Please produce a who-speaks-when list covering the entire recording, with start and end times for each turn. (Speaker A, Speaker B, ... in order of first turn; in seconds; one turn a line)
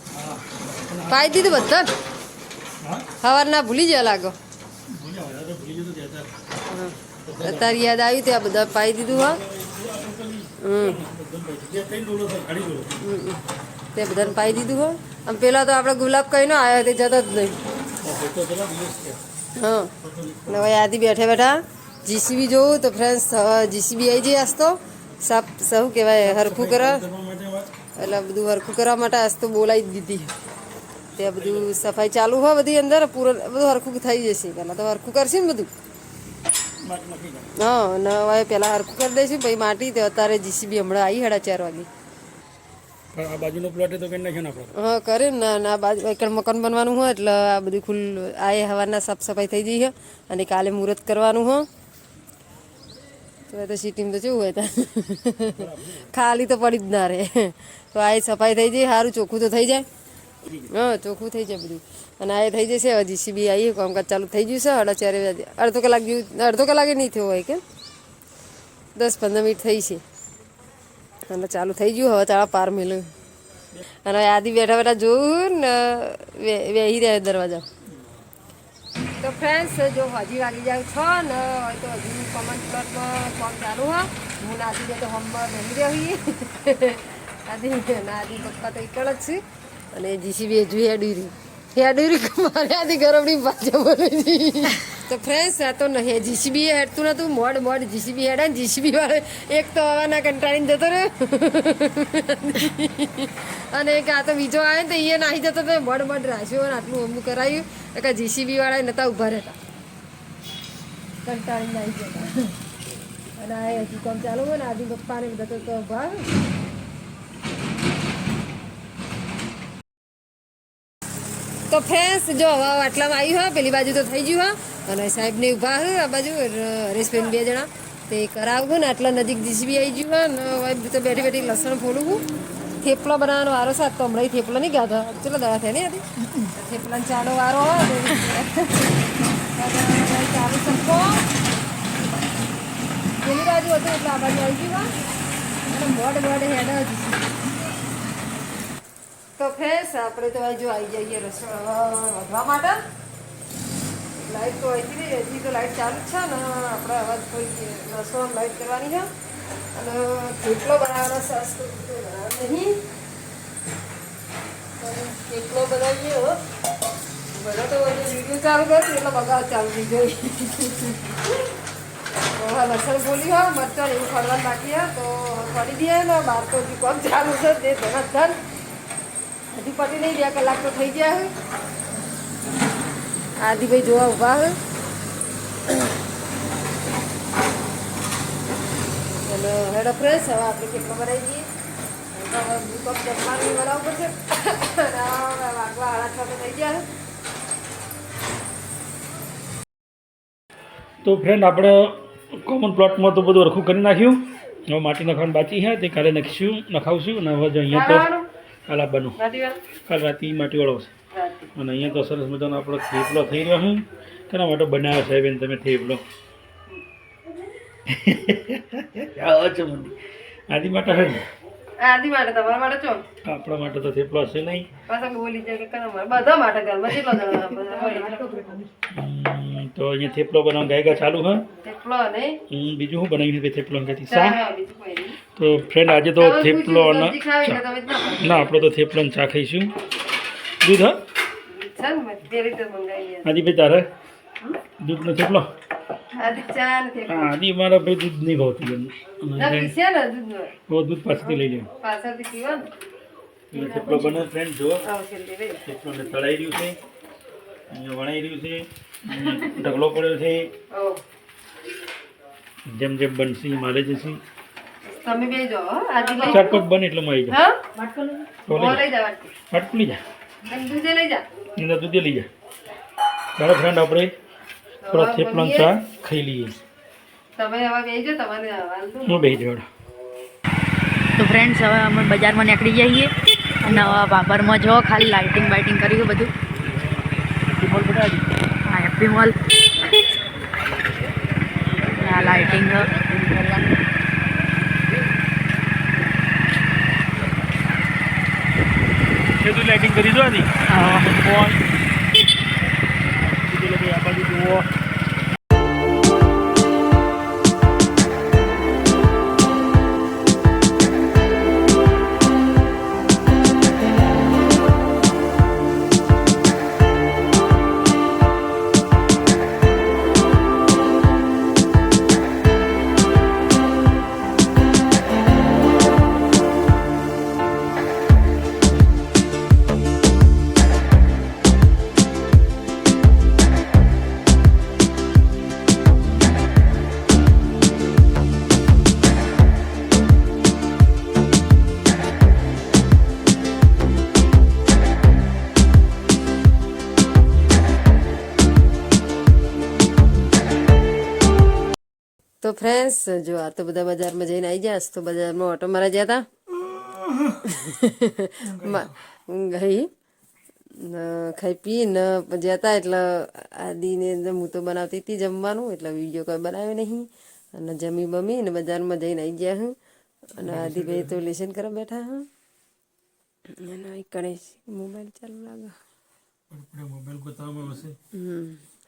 Speaker A: 0.1-1.7
Speaker B: 1.1-1.9
Speaker A: 2.8-3.1
Speaker B: 3.2-4.3
Speaker A: 4.9-6.3
Speaker B: 6.7-9.4
Speaker A: 7.2-7.8
Speaker A: 9.1-13.0
Speaker B: 10.6-11.0
Speaker B: 13.0-13.4
Speaker B: 13.9-17.6
Speaker A: 14.2-14.7
Speaker A: 18.0-19.2
Speaker B: 19.6-19.9
Speaker A: 20.0-20.7
Speaker B: 20.5-27.1
Speaker A: 26.2-27.7
Speaker B: 28.0-30.3
Speaker B: 31.1-35.7
Speaker A: 31.2-31.7
Speaker A: 36.8-37.5
Speaker B: 37.5-41.9
Speaker A: 43.1-44.7
Speaker B: 44.7-51.7
Speaker B: 53.5-59.8
Speaker A: 55.5-56.1
Speaker B: 60.7-67.6
Speaker B: 68.9-70.0
Speaker B: 71.3-73.1
Speaker B: 74.0-77.7
Speaker B: 79.2-109.6
Speaker B: 111.2-112.5
Speaker B: 113.4-116.3
Speaker B: 121.7-132.2
Speaker B: 132.8-141.2
Speaker B: 143.2-144.9
Speaker B: 145.7-147.3
Speaker B: 149.4-152.8
Speaker B: 154.2-159.1
Speaker B: 159.7-162.8
Speaker B: 164.8-166.4
Speaker B: 167.3-171.4
Speaker B: 172.3-178.4
Speaker B: 179.5-181.3
Speaker B: 183.4-184.6
Speaker B: 189.2-191.4
Speaker B: 192.1-196.8
Speaker A: 201.0-208.1
Speaker B: 207.7-208.2
Speaker A: 208.7-209.2
Speaker B: 209.2-209.6
Speaker A: 209.9-210.9
Speaker B: 211.1-211.5
Speaker A: 211.6-216.0
Speaker A: 217.9-219.9
Speaker A: 220.5-221.2
Speaker B: 221.8-223.0
Speaker A: 223.2-224.7
Speaker B: 224.9-228.6
Speaker A: 226.9-227.2
Speaker A: 228.9-231.4
Speaker B: 231.6-232.4
Speaker A: 232.5-234.4
Speaker B: 234.1-235.2
Speaker A: 235.3-237.6
Speaker B: 236.2-238.7
Speaker A: 238.2-239.7
Speaker A: 240.6-241.0
Speaker B: 241.5-243.3
Speaker A: 243.2-243.8
Speaker A: 244.8-245.5
Speaker B: 246.1-247.3
Speaker A: 247.1-249.7
Speaker B: 249.4-250.6
Speaker A: 250.7-251.7
Speaker B: 251.2-252.7
Speaker A: 253.5-254.8
Speaker B: 253.6-254.0
Speaker B: 254.8-255.6
Speaker A: 255.7-256.8
Speaker A: 257.7-260.5
Speaker B: 260.7-261.0
Speaker A: 262.7-264.2
Speaker B: 264.9-266.6
Speaker A: 266.2-267.4
Speaker B: 267.3-267.6
Speaker C: 267.8-268.2
Speaker A: 268.5-268.9
Speaker B: 268.5-269.3
Speaker A: 269.5-270.0
Speaker B: 270.4-271.4
Speaker A: 271.6-272.3
Speaker A: 273.4-274.1
Speaker B: 274.8-275.7
Speaker A: 274.9-276.5
Speaker B: 277.4-279.3
Speaker A: 279.0-279.7
Speaker C: 281.2-286.3
Speaker A: 287.5-288.2
Speaker C: 288.6-289.4
Speaker C: 291.9-293.0
Speaker A: 299.4-301.6
Speaker C: 300.8-301.1
Speaker A: 303.3-304.7
Speaker B: 352.4-356.2
Speaker A: 356.7-357.2
Speaker B: 357.4-359.9
Speaker A: 358.4-358.9
Speaker B: 360.8-369.8
Speaker B: 370.3-372.3
Speaker A: 370.4-371.2
Speaker B: 373.5-375.8
Speaker A: 376.5-377.9
Speaker B: 378.1-378.6